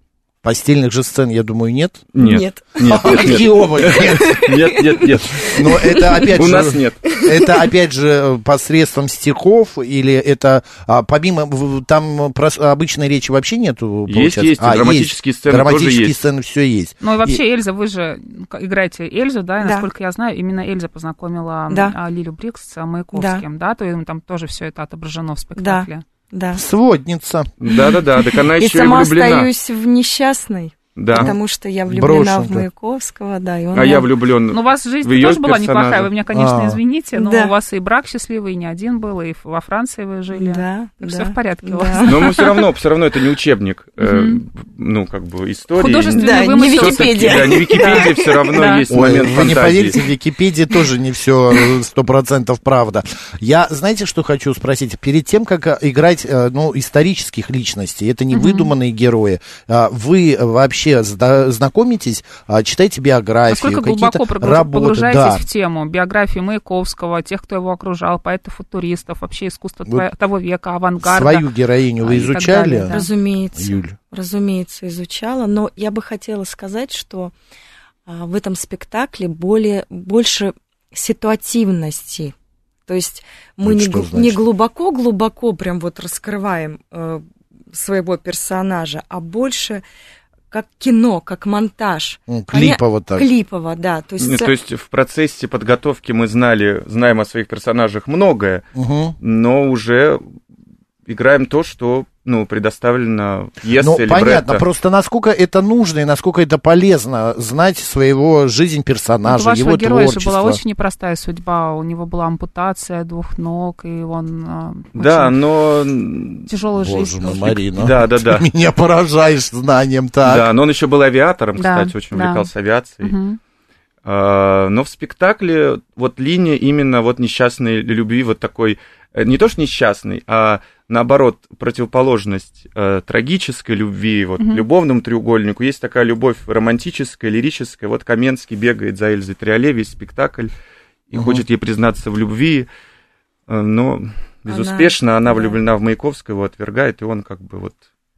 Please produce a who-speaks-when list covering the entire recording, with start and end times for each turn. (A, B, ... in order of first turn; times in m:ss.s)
0:00.4-0:02.1 A
0:02.1-0:07.1 B
0:02.2-0:06.3 C
0:02.9-0:04.5 A
0:05.4-0:17.4 A
0:07.2-0:07.6 C
0:14.1-0:16.2 B
0:17.0-0:26.0 D
0:19.6-0:19.9 C
0:21.7-0:22.0 C
0:23.1-0:23.4 C
0:25.6-0:26.6 C
0:26.6-0:27.5 A
0:27.6-0:29.5 B
0:28.4-0:34.1 C
0:31.0-0:31.4 B
0:31.9-0:32.7 A
0:33.7-0:36.1 B
0:34.5-0:42.6 D
0:36.3-0:36.8 A
0:37.1-0:37.5 C
0:40.3-0:42.3 C
0:42.0-0:50.0 B
0:44.0-0:44.4 D
0:45.8-0:48.8 D
0:46.1-0:48.8 C
0:48.9-1:05.4 A
0:58.3-0:58.7 D
1:03.5-1:11.5 D
1:11.0-1:13.0 A
1:12.0-1:13.1 D
1:12.9-1:17.3 C
1:13.6-1:14.0 A
1:18.1-1:22.3 C
1:22.9-1:29.8 C
1:23.6-1:24.4 A
1:30.5-1:34.5 C
1:32.3-1:33.3 A
1:34.2-1:38.6 B
1:38.8-1:39.2 A
1:39.2-1:40.2 B
1:41.1-1:44.6 B
1:43.8-1:50.6 A
1:49.3-1:55.4 D
1:55.0-1:56.5 B
1:56.5-1:57.6 D
1:56.8-2:00.5 A
1:57.8-1:58.5 B
2:00.2-2:03.2 B
2:01.6-2:02.5 D
2:03.0-2:03.4 D
2:04.0-2:20.5 B
2:14.4-2:14.6 D
2:21.1-2:22.7 B
2:21.1-2:21.4 A
2:23.5-2:27.8 B
2:24.5-2:25.6 C